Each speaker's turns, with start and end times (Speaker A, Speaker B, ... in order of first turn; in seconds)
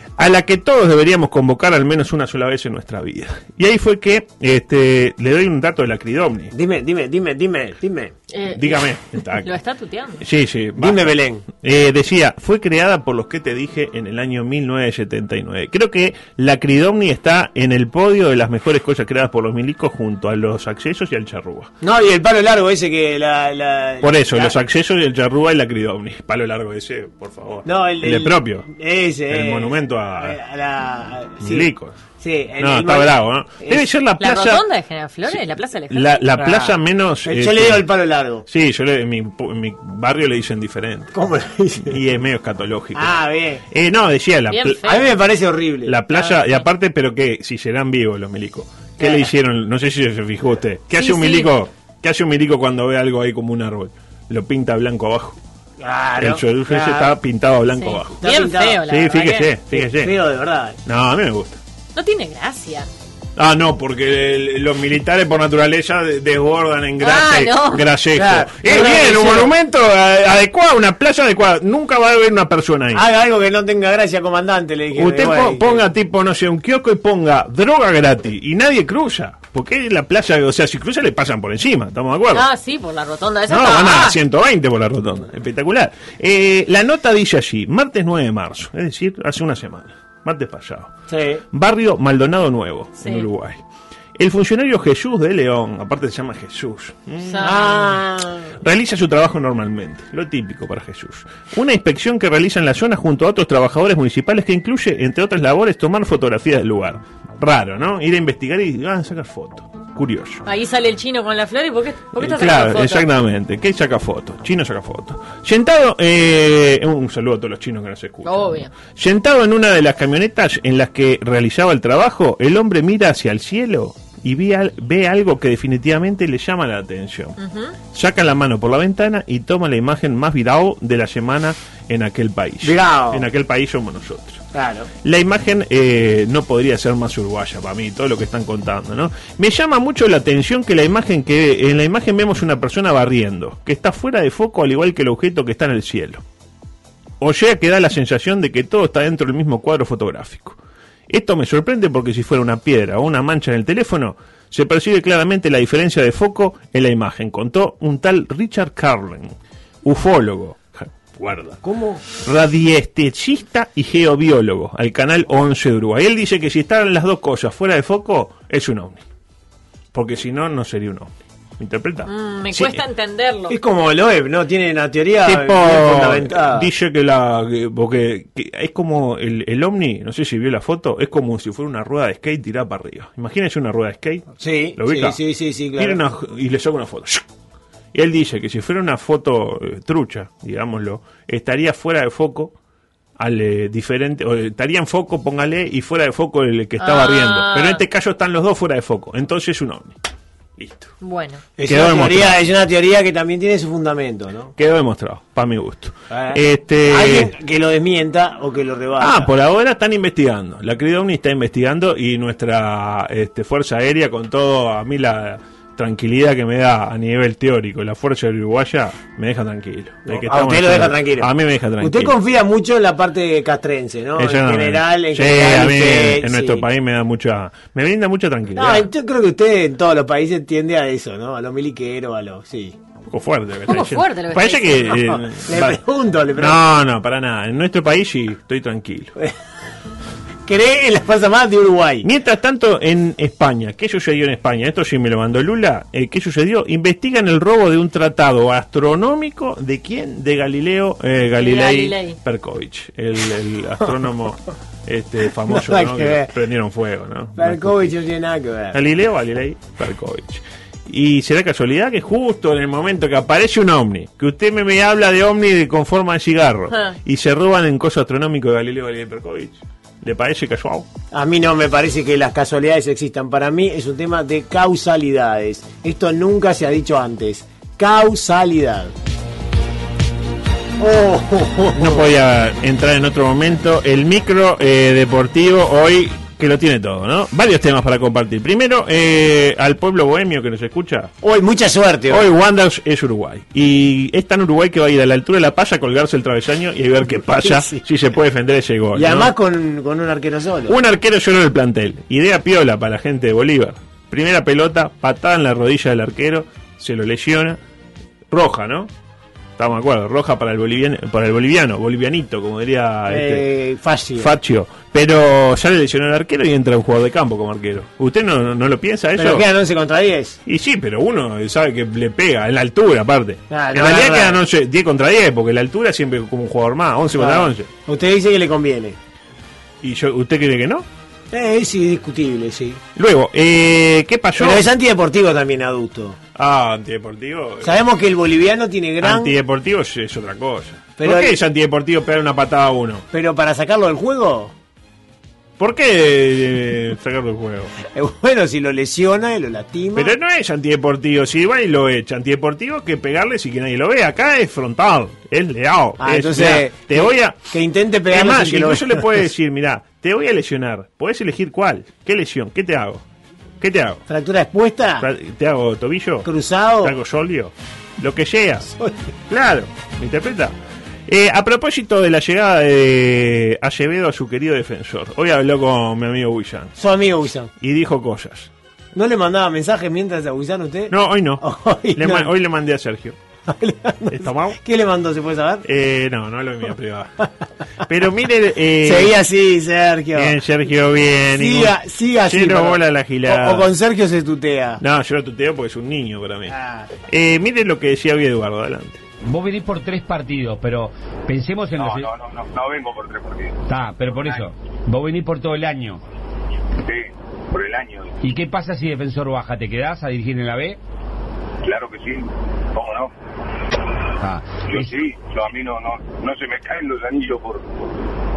Speaker A: 0.2-6.5, 8.5-9.5, 10.2-21.7, 24.0-28.7, 29.3-30.4, 31.4-32.0, 32.6-34.6, 35.9-37.9, 38.5-41.1, 41.8-44.9, 45.8-55.4, 56.2-58.2, 58.9-60.1, 60.8-61.6, 63.4-73.0, 74.9-82.5, 83.5-90.9, 91.5-93.6, 94.2-97.8, 98.6-110.4, 112.2-127.4, 127.9-134.4, 135.0-146.2, 147.2-150.6, 151.1-161.6, 162.2-169.0, 169.9-172.8, 175.2-185.2, 185.8-187.2, 187.9-192.5, 193.2-199.9, 200.6-200.9, 201.6-202.4, 204.6-207.3, 209.0-222.1, 224.2-228.9, 233.1-235.8, 236.3-239.1, 242.0-257.9, 258.7-270.9, 281.7-291.1, 292.1-299.3, 300.7-307.6, 308.3-308.9, 309.6-313.4, 314.1-319.4, 320.4-327.7, 329.8-330.9, 332.9-334.6, 336.4-337.8, 339.0-343.0, 345.6-347.7, 349.9-357.4, 358.1-363.0, 363.6-364.0, 365.0-366.3, 366.8-368.7, 369.3-370.5, 371.1-376.7, 377.6-378.5, 380.9-381.4, 381.9-383.1, 384.1-384.6, 385.6-387.1, 387.9-389.1, 390.1-393.7, 394.8-396.5, 397.1-399.0
Speaker B: 6.5-8.1, 10.8-11.4, 21.8-24.5, 27.6-33.8, 36.4-38.4, 41.1-42.0, 42.9-43.6, 44.9-46.3, 49.0-49.3, 55.8-57.1, 58.2-58.8, 59.7-60.8, 68.1-69.5, 72.9-75.8, 91.1-91.4, 97.4-98.5, 132.6-133.2, 134.5-134.9, 161.6-162.0, 173.5-176.7, 184.4-186.0, 201.6-204.5, 206.1-209.3, 220.1-221.3, 221.8-226.6, 228.5-232.7, 235.5-236.6, 240.4-242.1, 255.5-256.3, 257.4-258.8, 271.1-278.9, 280.8-282.0, 291.2-292.2, 297.4-297.8, 298.9-300.7, 313.1-314.3, 319.2-320.4, 323.5-324.4, 327.1-329.0, 331.3-332.8, 334.4-336.2, 337.6-339.3, 341.0-341.3, 343.1-344.5, 347.9-350.1, 356.0-359.0, 364.1-365.0, 366.2-366.9, 376.8-377.5, 378.9-382.3, 383.5-385.6, 388.8-390.4, 391.3-394.8, 396.5-396.9
Speaker C: 8.3-8.9, 9.4-10.2, 34.2-36.2, 44.5-45.0, 50.9-51.5, 57.8-59.5, 61.9-62.9, 67.0-67.9, 82.3-84.2, 93.0-93.3, 97.2-97.9, 110.4-113.0, 118.2-118.7, 127.4-127.7, 172.1-173.6, 196.8-197.8, 201.0-201.4, 233.7-235.0, 251.4-252.2, 266.7-266.9
Speaker D: 399.2-402.1, 403.7-406.0, 408.2-410.8, 414.2-414.9
Speaker E: 401.8-403.6, 406.8-408.2, 411.6-413.1, 414.7-417.9